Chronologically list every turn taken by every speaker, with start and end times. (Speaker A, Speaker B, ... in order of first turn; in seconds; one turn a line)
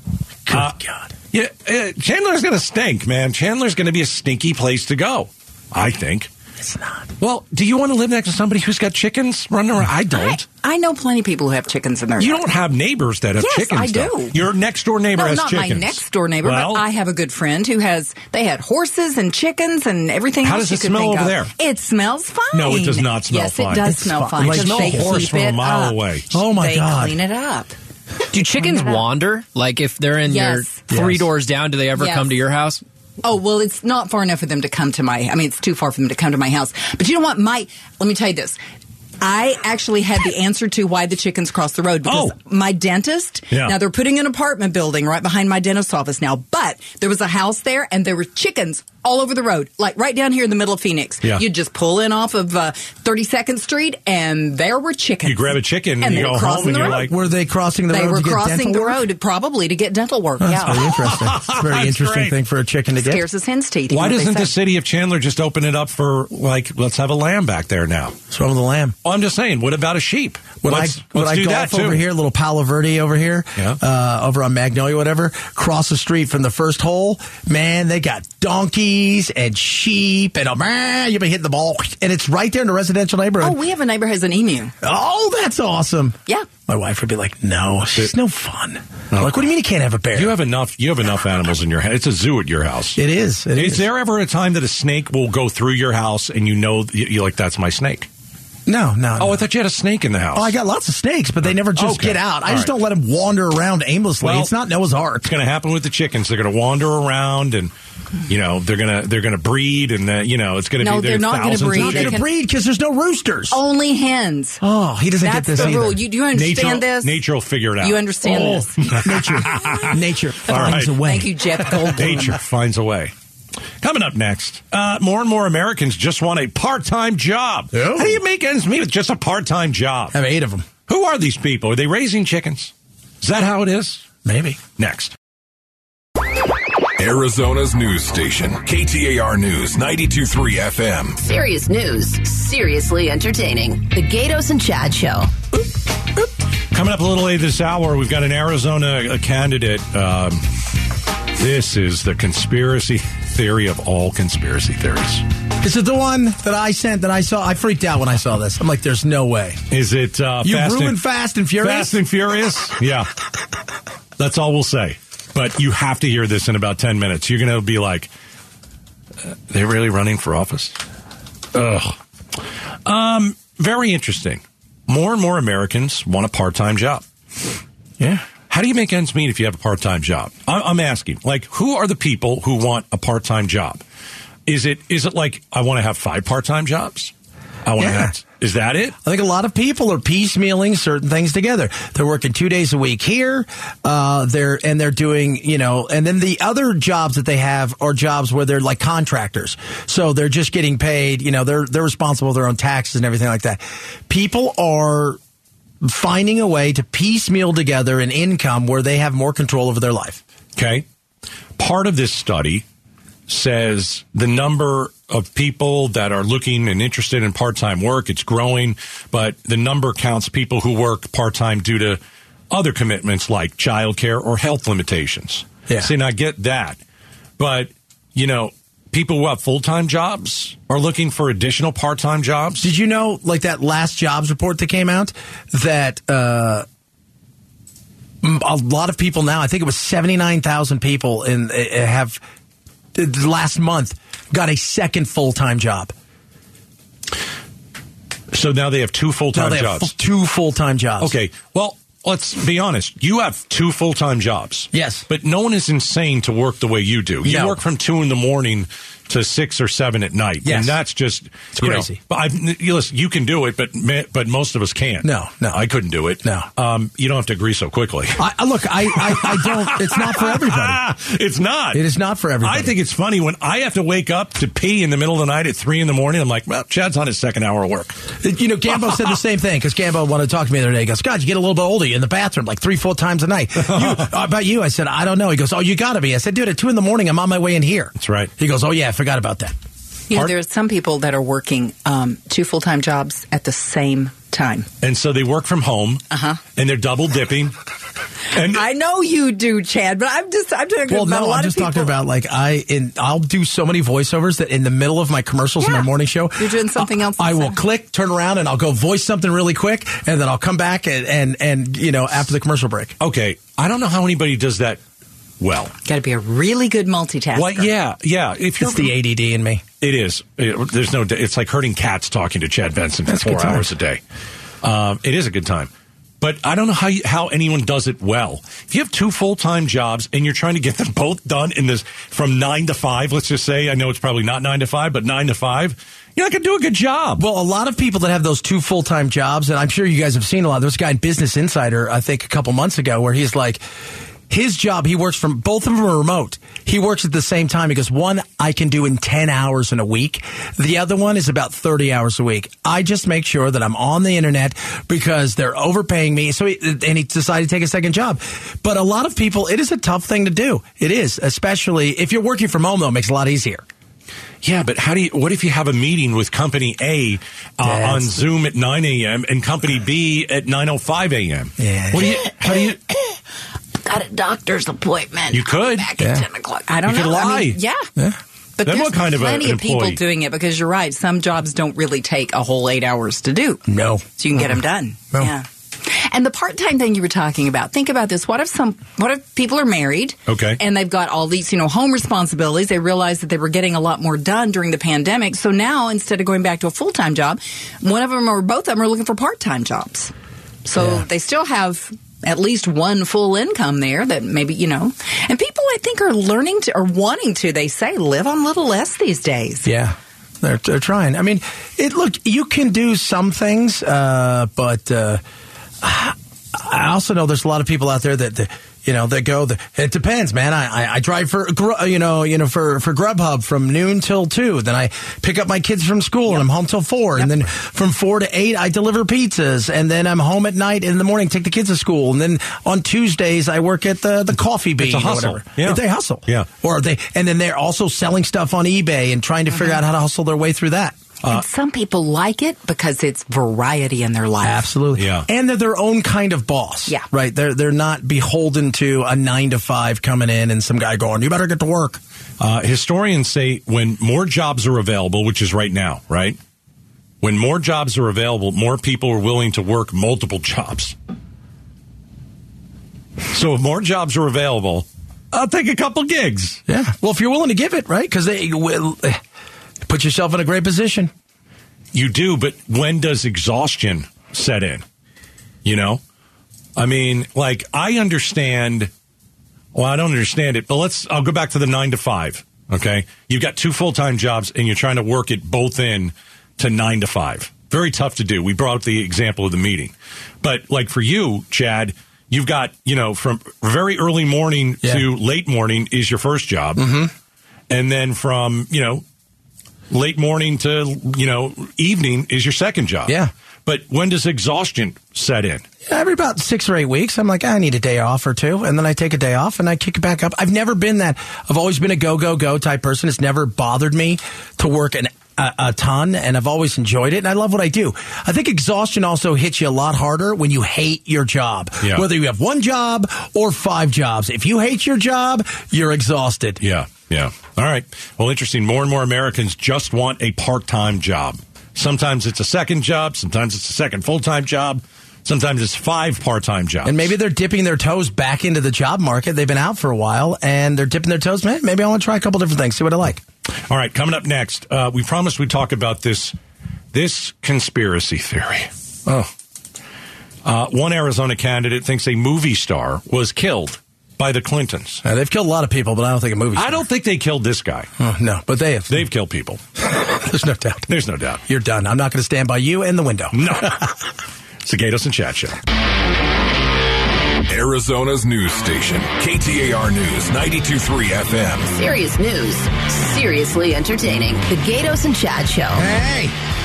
Speaker A: 0.5-1.2
Speaker B: 1.3-6.3
Speaker A: 6.6-7.1
Speaker B: 7.2-10.4
Speaker C: 10.1-12.5
Speaker B: 12.2-16.9
Speaker C: 13.4-14.4
Speaker C: 15.2-27.8
Speaker B: 20.4-21.5
Speaker B: 22.5-26.3
Speaker A: 23.8-25.3
Speaker A: 26.3-27.2
Speaker D: 28.3-32.8
Speaker C: 28.6-29.0
Speaker C: 30.3-30.8
Speaker A: 30.9-31.3
Speaker C: 32.0-32.3
Speaker C: 33.2-38.6
Speaker C: 39.2-57.1
Speaker B: 42.0-42.3
Speaker B: 43.5-43.8
Speaker B: 55.2-57.1
Speaker A: 56.4-59.0
Speaker C: 57.9-60.9
Speaker A: 60.4-63.2
Speaker B: 60.7-62.4
Speaker C: 63.0-64.5
Speaker B: 63.9-68.2
Speaker A: 68.3-69.0
Speaker B: 69.0-72.0
Speaker A: 70.6-83.6
Speaker C: 83.4-84.7
Speaker A: 84.8-90.3
Speaker B: 90.2-93.0
Speaker A: 93.0-93.8
Speaker B: 93.5-98.1
Speaker A: 98.7-99.4
Speaker B: 99.2-100.5
Speaker A: 100.3-105.3
Speaker B: 101.5-102.7
Speaker B: 104.2-104.5
Speaker B: 105.2-107.7
Speaker B: 108.3-112.2
Speaker C: 110.8-112.3
Speaker A: 111.7-113.6
Speaker C: 113.5-114.6
Speaker A: 114.6-116.0
Speaker C: 115.2-117.1
Speaker B: 116.3-121.0
Speaker C: 117.8-119.0
Speaker A: 118.2-122.1
Speaker C: 120.5-122.4
Speaker B: 121.9-123.1
Speaker B: 123.8-130.2
Speaker A: 127.7-128.2
Speaker A: 130.1-130.7
Speaker B: 130.9-134.1
Speaker A: 134.2-134.6
Speaker B: 134.8-135.1
Speaker E: 137.0-141.2
Speaker F: 141.2-145.3
Speaker B: 146.7-150.4
Speaker B: 151.3-155.2
Speaker A: 155.6-159.6
Speaker B: 159.7-161.0
Speaker A: 160.4-162.0
Speaker B: 161.6-163.1
Speaker B: 164.2-168.1
Speaker B: 169.3-170.8
Speaker B: 171.5-177.0
Speaker B: 178.5-183.8
Speaker B: 184.5-187.1
Speaker B: 187.7-189.0
Speaker A: 187.8-188.1
Speaker A: 189.0-205.2
Speaker A: 205.8-210.2
Speaker B: 210.6-210.8
Speaker B: 211.6-212.7
Speaker B: 213.3-226.8
Speaker B: 227.4-232.7
Speaker A: 232.6-236.7
Speaker A: 238.2-242.2
Speaker A: 242.9-245.9
Speaker B: 248.3-249.9
Speaker A: 249.3-251.1
Speaker B: 251.0-268.2
Speaker A: 254.7-255.1
Speaker A: 257.2-257.6
Speaker A: 260.4-260.8
Speaker A: 261.6-262.0
Speaker A: 265.0-265.6
Speaker A: 266.2-266.5
Speaker A: 268.2-270.8
Speaker B: 268.9-271.8
Speaker A: 271.7-272.7
Speaker B: 272.4-278.0
Speaker A: 278.2-289.5
Speaker B: 283.6-284.1
Speaker B: 288.0-288.3
Speaker C: 290.1-294.7
Speaker B: 294.8-296.0
Speaker C: 296.1-296.4
Speaker B: 296.6-297.6
Speaker B: 298.3-298.6
Speaker C: 298.4-302.0
Speaker A: 300.9-313.0
Speaker C: 305.6-307.6
Speaker B: 313.0-314.8
Speaker B: 315.4-315.7
Speaker C: 315.9-317.7
Speaker B: 317.4-318.9
Speaker A: 318.6-319.6
Speaker B: 319.8-324.0
Speaker A: 323.1-323.7
Speaker B: 324.6-325.7
Speaker B: 326.2-337.2
Speaker A: 337.2-343.6
Speaker A: 344.3-363.6
Speaker B: 364.4-372.8
Speaker A: 367.6-368.2
Speaker A: 371.6-372.2
Speaker F: 372.1-372.9
Speaker F: 373.8-376.7
Speaker B: 375.3-375.9
Speaker A: 376.0-376.2
Speaker C: 376.7-377.9
Speaker B: 376.8-377.6
Speaker C: 378.6-383.6
Speaker B: 378.6-380.0
Speaker A: 383.7-384.4
Speaker C: 384.2-400.1
Speaker B: 390.3-390.6
Speaker C: 400.6-409.7
Speaker A: 400.8-401.0
Speaker A: 409.6-415.2
Speaker A: 415.8-441.0
Speaker B: 434.8-436.5
Speaker C: 441.3-444.7
Speaker A: 444.4-452.0
Speaker B: 445.0-445.3
Speaker B: 452.4-456.4
Speaker B: 457.2-460.9
Speaker B: 463.3-466.6
Speaker A: 466.7-469.2
Speaker A: 469.9-471.1
Speaker B: 471.9-474.8
Speaker B: 475.6-476.0
Speaker B: 476.8-478.9
Speaker B: 479.7-496.9
Speaker A: 496.8-497.1
Speaker B: 497.7-499.0
Speaker B: 499.9-505.6
Speaker A: 505.9-526.6
Speaker B: 526.6-537.1
Speaker A: 536.8-543.2
Speaker B: 543.7-546.4
Speaker B: 546.9-549.3
Speaker B: 550.5-555.0
Speaker A: 555.0-556.9
Speaker B: 556.6-557.9
Speaker A: 558.0-559.0
Speaker B: 558.9-559.6
Speaker A: 559.8-560.9
Speaker B: 560.9-561.4
Speaker A: 561.5-563.8
Speaker B: 563.3-563.9
Speaker B: 564.6-565.6
Speaker E: 567.5-571.7
Speaker F: 571.7-575.9
Speaker A: 575.7-576.4